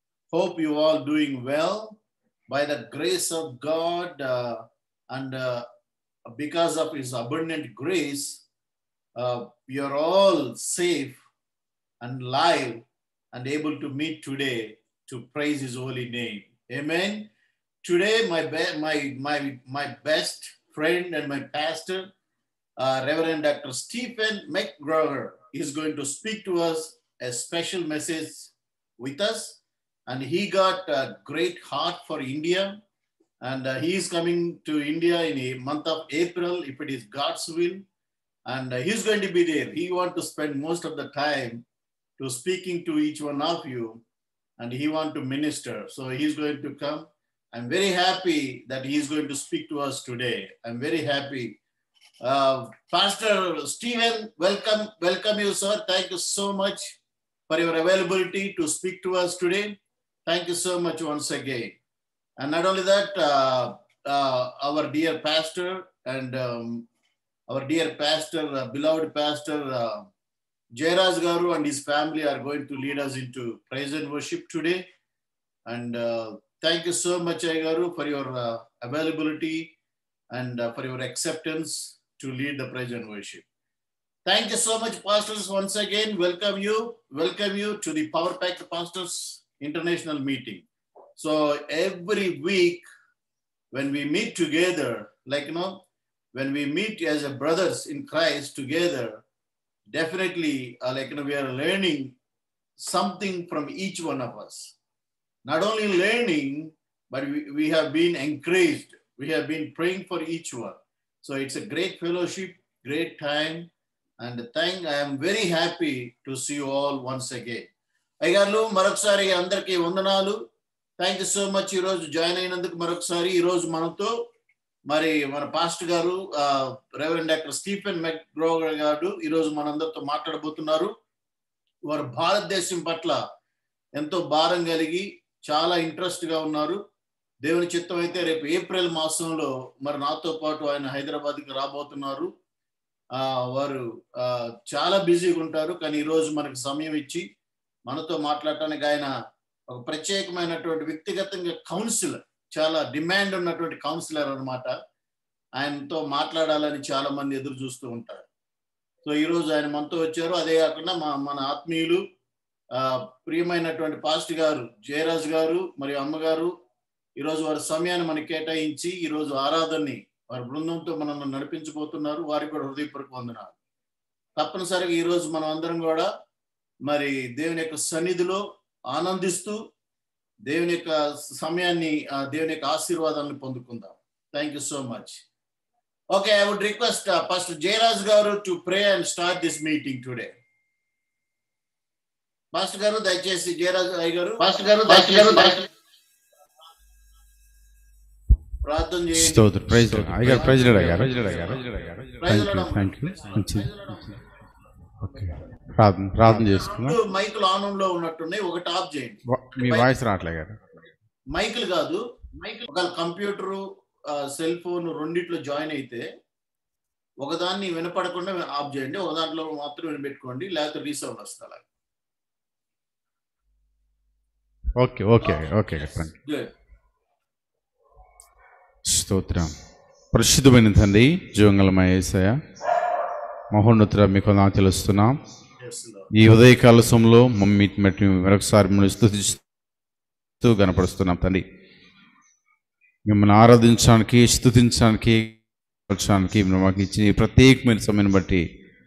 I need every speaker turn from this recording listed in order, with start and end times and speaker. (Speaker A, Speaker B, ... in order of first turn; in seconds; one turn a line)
Speaker A: 0.3-2.0
Speaker A: 2.5-5.7
Speaker A: 6.3-8.4
Speaker A: 9.2-11.2
Speaker A: 12.0-17.3
Speaker A: 17.8-22.1
Speaker A: 22.8-32.8
Speaker A: 33.4-37.8
Speaker A: 38.5-41.6
Speaker A: 42.2-44.0
Speaker A: 44.6-51.5
Speaker A: 52.2-57.0
Speaker A: 57.5-59.7
Speaker A: 60.3-61.7
Speaker A: 62.4-66.8
Speaker A: 67.5-70.1
Speaker A: 70.8-74.8
Speaker A: 75.7-79.7
Speaker A: 80.3-83.4
Speaker A: 84.2-90.6
Speaker A: 91.2-92.8
Speaker A: 93.7-95.8
Speaker A: 96.3-99.2
Speaker A: 99.9-102.1
Speaker A: 102.8-104.7
Speaker A: 105.4-113.7
Speaker A: 114.2-117.7
Speaker A: 118.2-120.4
Speaker A: 121.0-124.1
Speaker A: 124.9-130.9
Speaker A: 131.9-133.2
Speaker A: 134.0-136.8
Speaker A: 137.4-142.3
Speaker A: 143.2-147.2
Speaker A: 147.9-149.1
Speaker A: 149.7-154.7
Speaker A: 155.6-158.2
Speaker A: 159.1-162.0
Speaker A: 162.7-166.5
Speaker A: 167.2-173.6
Speaker A: 174.4-176.1
Speaker A: 176.9-179.6
Speaker A: 180.5-185.2
Speaker A: 186.1-190.3
Speaker A: 192.5-195.6
Speaker A: 198.6-201.6
Speaker B: 199.2-204.0
Speaker A: 202.2-204.0
Speaker B: 205.0-207.0
Speaker A: 206.2-209.9
Speaker B: 209.3-210.8
Speaker A: 211.3-216.1
Speaker A: 217.2-221.6
Speaker B: 224.8-226.1
Speaker A: 226.2-226.5
Speaker B: 228.9-229.5
Speaker B: 230.1-232.4
Speaker B: 233.5-235.2
Speaker A: 235.6-236.1
Speaker B: 236.2-239.4
Speaker B: 240.4-241.4
Speaker B: 243.1-245.4
Speaker B: 245.9-248.4